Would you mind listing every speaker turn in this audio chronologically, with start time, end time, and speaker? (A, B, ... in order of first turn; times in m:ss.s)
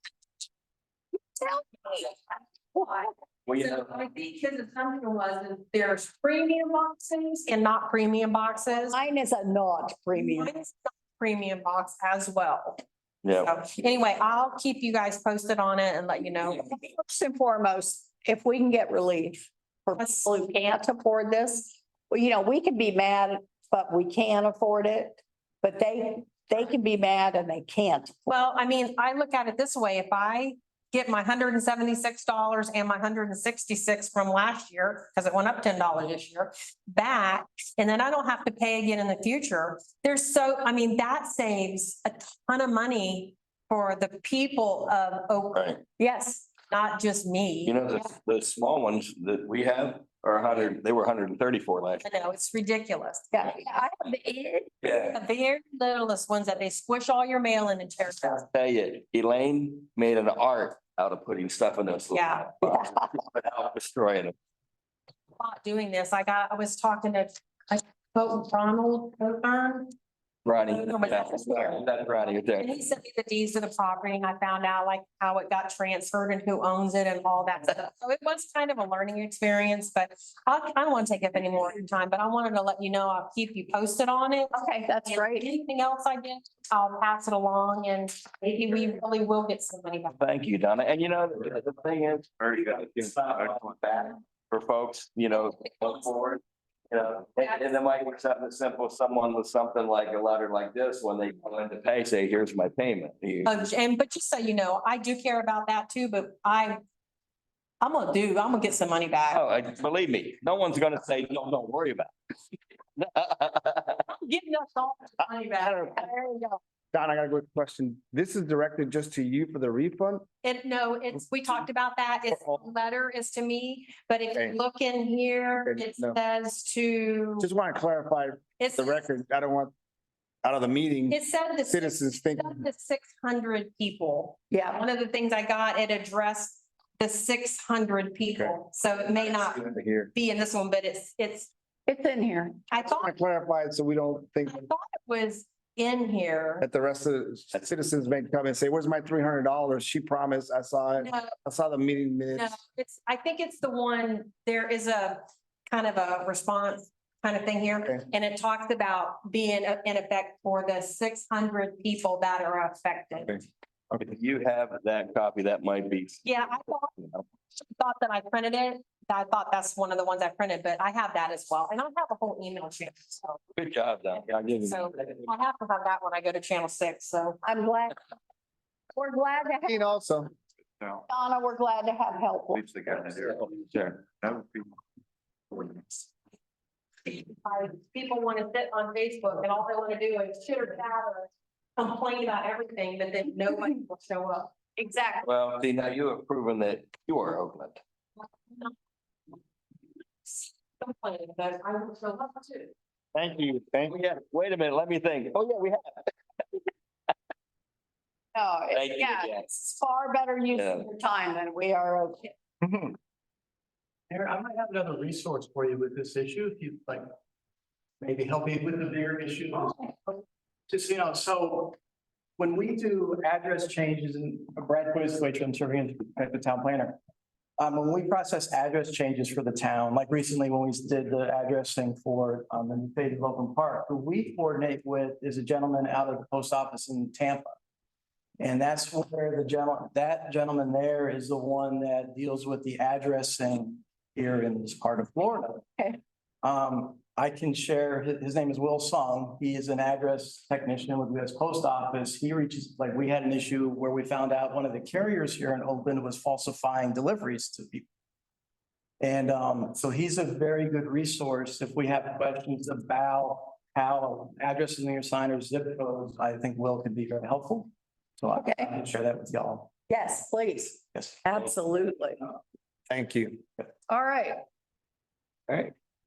0:01.4-0:02.2 A
0:02.7-0:09.0 A
0:03.5-0:03.9 B
0:08.7-0:10.5 C
0:10.1-0:12.8 A
0:13.2-0:13.5 B
0:13.4-0:16.7 A
0:16.6-0:28.2 C
0:28.3-0:45.7 A
0:45.5-0:45.8 B
0:46.0-0:46.5 C
0:46.7-0:47.8 A
0:47.7-0:52.0 B
0:52.0-0:53.4 A
0:53.3-0:54.7 C
0:54.8-0:55.2 B
0:54.9-0:58.4 A
0:58.4-1:04.4 B
1:02.1-1:02.5 A
1:05.4-1:09.9 A
1:10.4-1:12.8 B
1:10.7-1:11.8 A
1:11.1-1:11.7 C
1:12.5-1:30.2 A
1:24.5-1:25.5 C
1:30.1-1:43.6 B
1:43.4-1:46.8 A
1:47.8-1:49.4 A
1:49.3-1:52.1 B
1:53.0-1:54.0 B
1:54.1-1:56.1 A
1:55.6-2:00.3 D
2:00.4-2:07.5 A
2:02.3-2:02.6 D
2:05.6-2:06.2 D
2:07.4-2:09.7 D
2:08.6-2:09.1 A
2:10.4-2:12.6 D
2:11.1-2:21.5 A
2:14.5-2:14.8 C
2:19.5-2:20.1 D
2:21.9-2:22.6 C
2:22.7-2:23.2 A
2:22.8-2:24.7 D
2:24.5-2:26.7 A
2:26.6-2:32.5 D
2:31.0-2:31.3 A
2:32.3-2:43.4 A
2:44.0-2:47.2 B
2:46.2-2:46.9 A
2:47.8-2:53.4 A
2:53.6-2:55.2 B
2:54.6-2:57.4 A
2:57.4-2:58.0 C
2:59.0-2:59.9 C
2:59.6-3:00.3 D
3:01.1-3:02.8 C
3:02.6-3:04.5 B
3:07.1-3:14.5 A
3:14.8-3:15.3 C
3:15.2-3:17.8 B
3:20.8-3:22.7 A
3:23.2-3:23.9 D
3:23.9-3:26.1 B
3:28.4-3:32.3 C
3:28.7-3:29.7 B
3:30.5-3:30.9 B
3:34.1-3:37.1 E
3:38.0-3:41.8 E
3:42.4-3:47.0 E
3:47.6-3:57.5 E
3:58.4-4:05.7 E
4:06.4-4:17.8 E
4:19.0-4:29.8 E
4:28.4-4:28.8 C
4:29.9-4:32.2 C
4:30.9-4:31.2 E
4:32.9-4:33.4 D
4:33.9-4:34.4 C